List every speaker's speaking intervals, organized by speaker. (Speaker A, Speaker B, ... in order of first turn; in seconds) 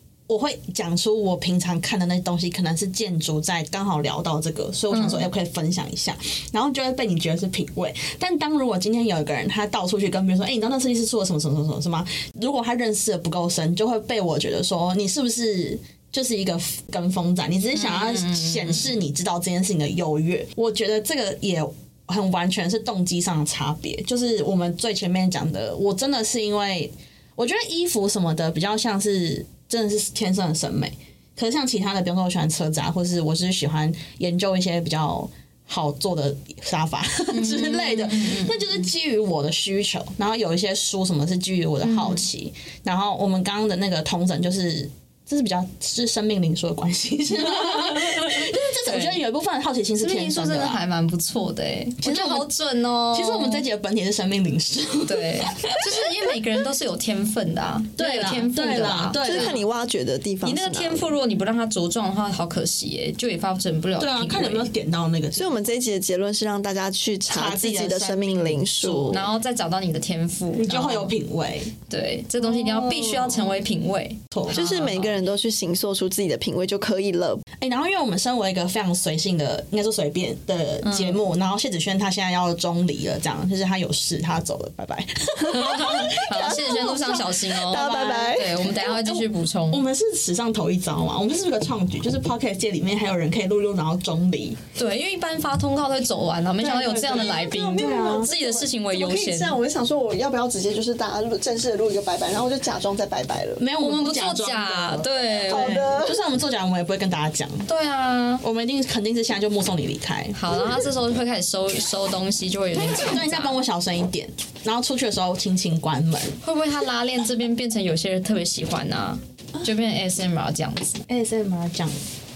Speaker A: 0.3-50.8, 52.0-52.5, 53.1-56.1, 58.0-59.6, 64.0-65.5, 67.3-69.2, 70.5-71.7, 72.4-73.6, 74.3-74.6, 77.6-94.6, 96.6-98.3, 103.6-107.7, 108.4-110.9, 112.8-116.4, 121.1-122.0
Speaker B: 4.9-5.3, 17.8-18.9, 37.3-38.9, 41.8-42.3, 47.4-49.2, 50.0-53.6, 55.0-59.6, 60.4-64.7, 69.1-71.2, 71.9-75.2, 80.8-81.2, 85.5-89.8, 94.8-99.6, 103.8-105.8, 107.7-108.4, 110.3-113.6, 116.4-121.0
Speaker C: 59.2-61.1, 65.3-69.3, 74.5-77.4, 86.3-88.6, 97.3-103.6, 105.5-106.2